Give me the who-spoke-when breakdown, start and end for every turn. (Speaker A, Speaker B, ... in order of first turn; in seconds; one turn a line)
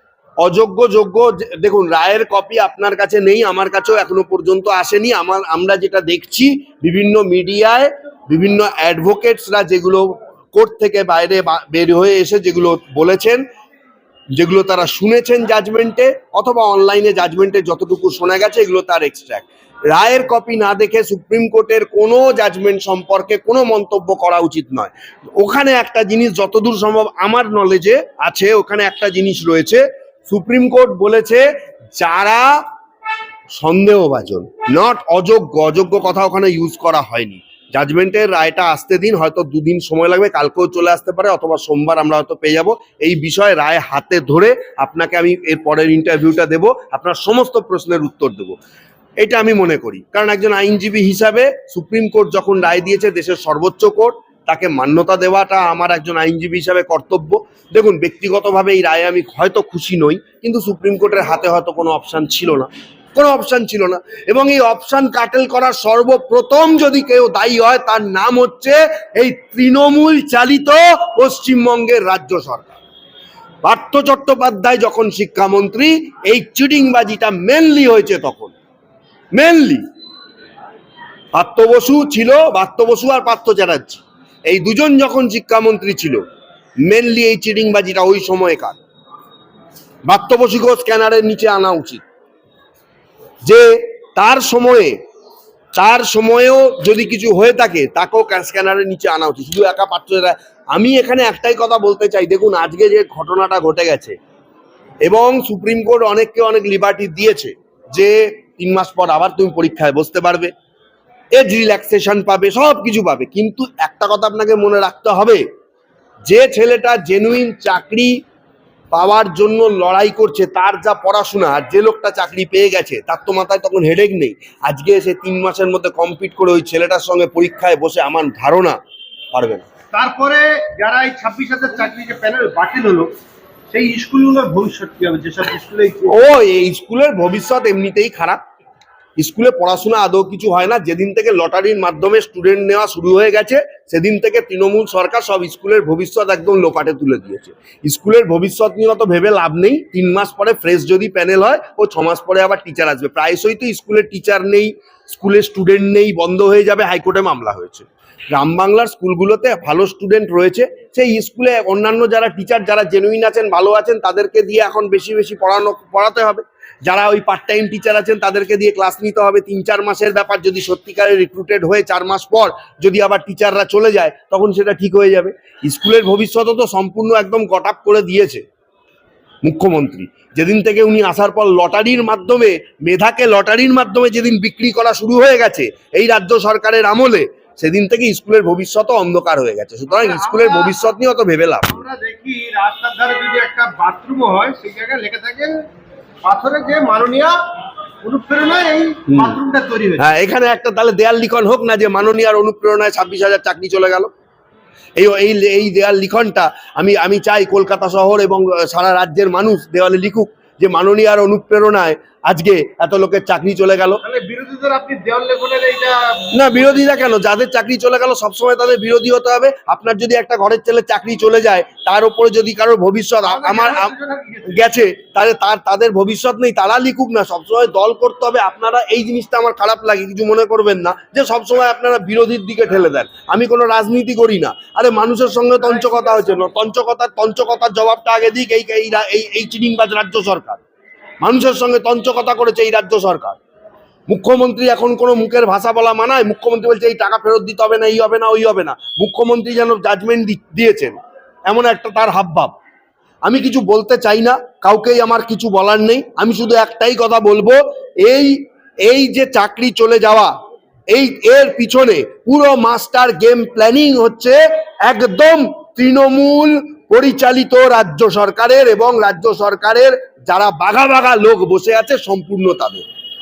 Speaker A: 0.4-13.4
Speaker A: 14.3-32.6
Speaker A: 33.6-48.6
Speaker A: 49.2-72.8
Speaker A: 73.6-78.5
Speaker A: 79.3-79.8
Speaker A: 81.3-86.2
Speaker A: 86.8-88.8
Speaker A: 90.1-92.0
Speaker A: 93.5-95.0
Speaker A: 95.8-104.2
Speaker A: 105.0-110.5
Speaker A: 111.3-115.4
Speaker A: 116.3-118.2
Speaker A: 118.9-128.8
Speaker A: 129.3-129.7
Speaker B: 129.9-133.1
Speaker B: 133.7-136.2
Speaker A: 136.1-138.4
Speaker A: 139.2-178.4
Speaker A: 179.4-191.8
Speaker B: 189.9-190.7
Speaker B: 191.7-195.5
Speaker B: 196.2-197.3
Speaker B: 198.0-200.0
Speaker A: 200.0-204.1
Speaker A: 205.0-214.0
Speaker B: 214.0-216.6
Speaker A: 216.3-223.9
Speaker B: 223.2-224.6
Speaker A: 224.5-240.6
Speaker B: 235.8-236.4
Speaker A: 241.2-243.4
Speaker A: 244.1-250.9
Speaker A: 251.5-252.5
Speaker A: 253.2-260.3
Speaker A: 260.9-272.8